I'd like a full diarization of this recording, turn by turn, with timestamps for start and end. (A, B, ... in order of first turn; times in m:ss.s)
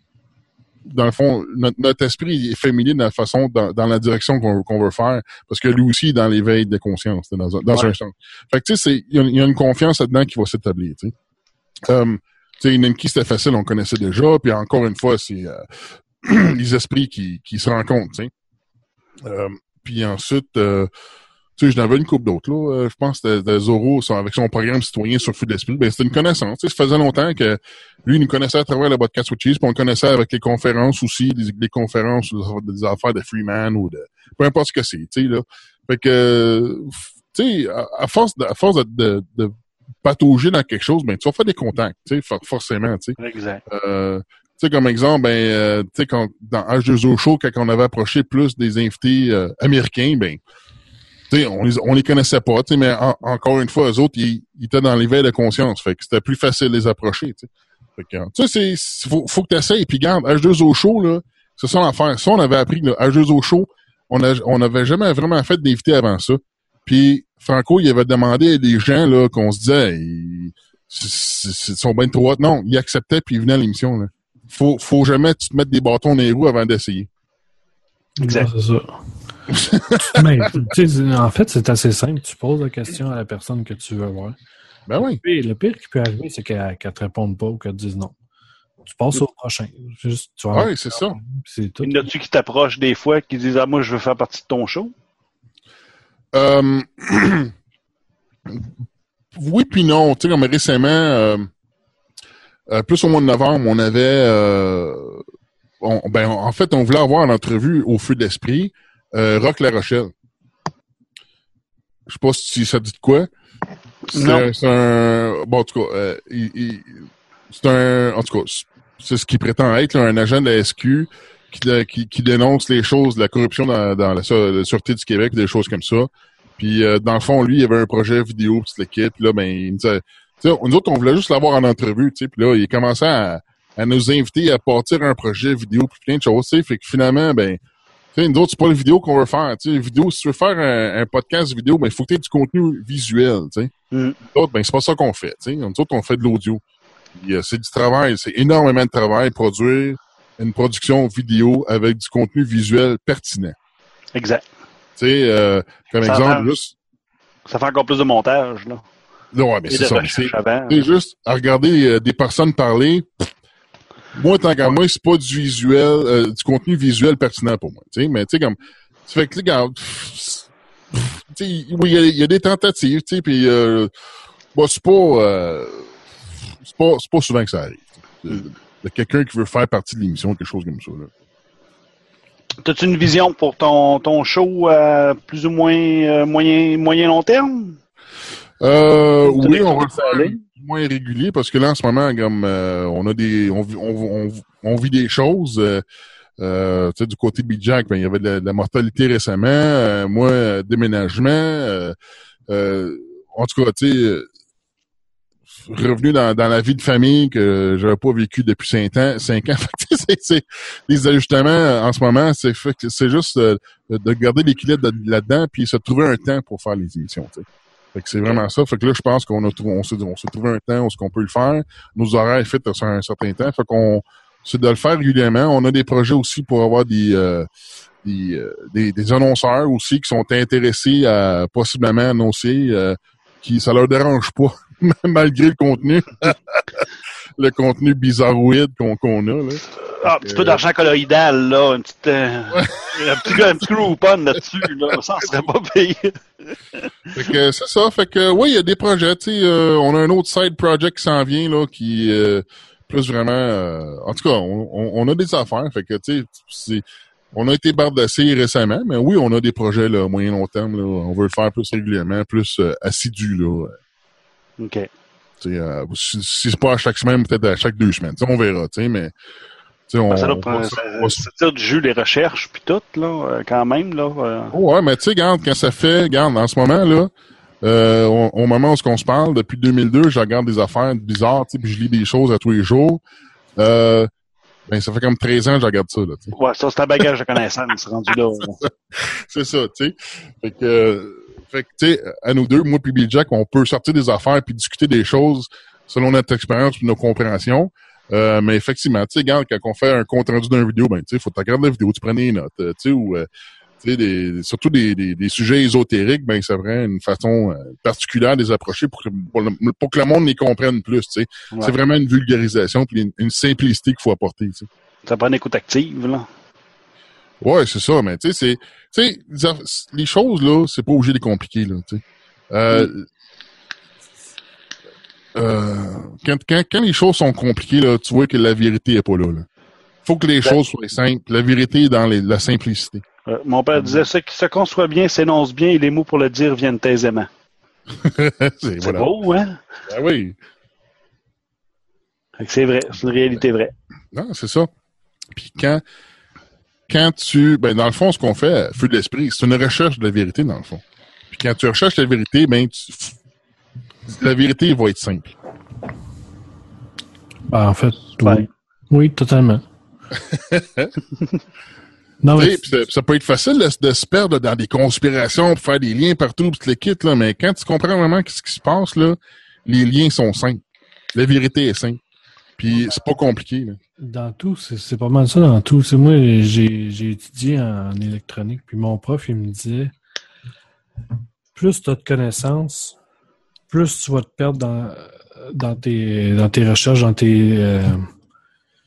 0:00.8-0:11.1 A
0:11.9-0:15.7 A
0:16.2-0:18.3 A
0:19.2-0:20.9 A
0:21.6-0:50.4 A
0:43.2-0:43.6 B
0:51.3-1:17.1 A
1:18.2-1:19.0 C
1:18.2-1:18.5 B
1:19.5-1:20.2 A
1:20.0-1:24.4 C
1:24.9-1:25.2 A
1:25.0-1:28.2 C
1:28.8-1:31.9 C
1:30.5-1:31.2 A
1:31.8-1:34.9 B
1:36.3-1:37.5 A
1:39.4-1:41.5 A
1:42.7-1:45.2 A
1:45.8-1:50.1 A
1:52.1-1:53.3 A
1:54.1-1:54.5 B
1:54.1-2:17.6 A
2:18.1-2:23.7 A
2:23.9-2:24.2 B
2:24.3-2:26.6 A
2:27.1-2:33.6 A
2:34.1-2:34.4 B
2:35.0-2:36.8 A
2:36.0-2:36.5 B
2:37.5-2:38.8 B
2:39.3-2:43.3 A
2:39.7-2:40.9 B
2:44.1-2:53.9 A
2:54.5-2:55.9 A
2:56.6-3:01.1 A
3:02.6-3:07.8 B
3:08.6-3:15.8 A
3:09.2-3:10.3 B
3:16.4-3:22.0 A
3:22.5-3:24.3 A
3:25.6-3:47.5 A
3:48.0-3:56.8 A
3:57.4-3:59.6 A
4:00.0-4:06.2 B
4:00.2-4:00.6 A
4:02.5-4:03.4 A
4:07.1-4:23.8 A
4:24.6-4:24.9 B
4:25.4-4:29.1 A
4:29.9-4:31.2 A
4:30.1-4:34.5 B
4:34.5-4:37.1 A
4:37.6-4:43.0 A
4:43.6-4:44.1 A
4:44.7-4:46.3 A
4:46.3-4:48.6 B
4:48.9-5:03.3 A
5:03.8-5:14.7 A
5:15.0-5:16.3 B
5:17.4-5:23.1 A
5:25.3-5:29.5 A
5:30.0-5:33.0 A
5:33.3-5:37.3 B
5:33.7-5:34.0 A
5:38.0-5:39.1 A
5:38.8-5:39.6 B
5:39.9-5:40.4 A
5:42.4-5:43.7 B
5:44.1-5:44.7 A
5:45.3-5:45.8 A
5:46.9-5:53.2 A
5:54.1-5:55.4 A
5:57.5-5:59.6 C
6:00.2-6:00.9 A
6:02.2-6:02.6 C
6:02.3-6:10.6 A
6:11.1-6:12.0 A
6:12.6-6:13.8 A
6:14.0-6:19.9 C
6:21.5-6:23.0 C
6:23.7-6:28.1 C